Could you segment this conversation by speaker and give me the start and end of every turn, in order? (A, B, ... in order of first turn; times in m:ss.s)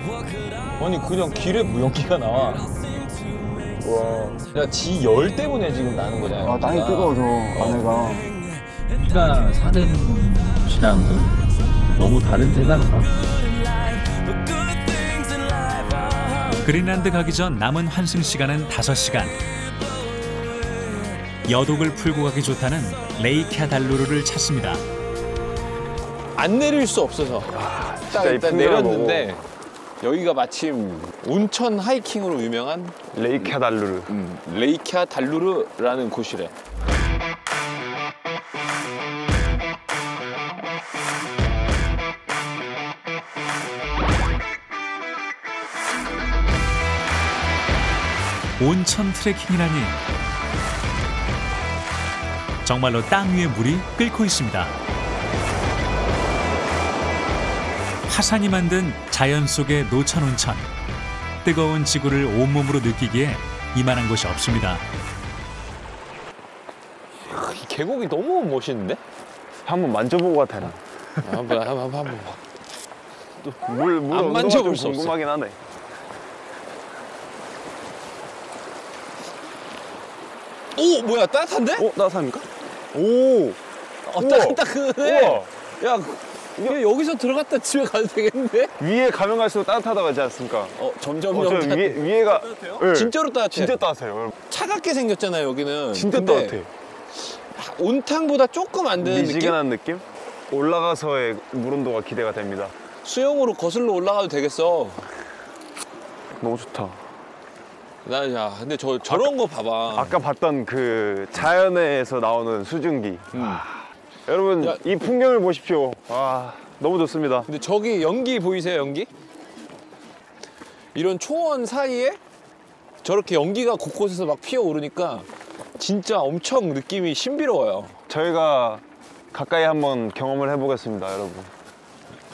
0:00.8-0:02.8 A
0:03.8-0:04.4 B
0:04.4-0:07.9 A
0:06.4-0:08.3 B
0:09.0-0:11.3 C
0:09.2-0:11.2 A
0:12.0-0:13.2 C
0:12.0-0:13.3 A
0:13.9-0:16.5 A
0:16.5-0:19.4 D
0:21.4-0:24.8 D
0:26.4-0:29.4 A
0:27.5-0:29.4 B
0:30.0-0:33.5 A
0:33.1-0:34.1 B
0:34.1-0:36.5 A
0:48.6-0:50.0 D
0:52.6-0:54.7 D
0:58.1-1:00.6 D
1:01.4-1:04.8 D
1:07.2-1:09.0 A
1:09.6-1:11.4 B
1:11.2-1:12.4 A
1:13.4-1:15.2 A
1:13.6-1:15.6 B
1:20.7-1:21.9 A
1:21.8-1:23.6 B
1:24.0-1:28.7 A
1:24.1-1:25.5 B
1:28.8-1:30.8 B
1:30.8-1:33.8 A
1:31.3-1:34.3 B
1:34.5-1:36.6 A
1:35.9-1:36.7 B
1:37.2-1:39.6 A
1:39.0-1:42.7 B
1:43.0-1:45.0 A
1:46.4-1:47.0 B
1:48.0-1:50.2 A
1:49.9-1:57.5 B
1:53.3-1:53.6 A
1:54.6-1:54.8 A
1:57.4-1:59.1 A
2:00.9-2:02.2 A
2:03.0-2:07.9 A
2:08.1-2:11.5 B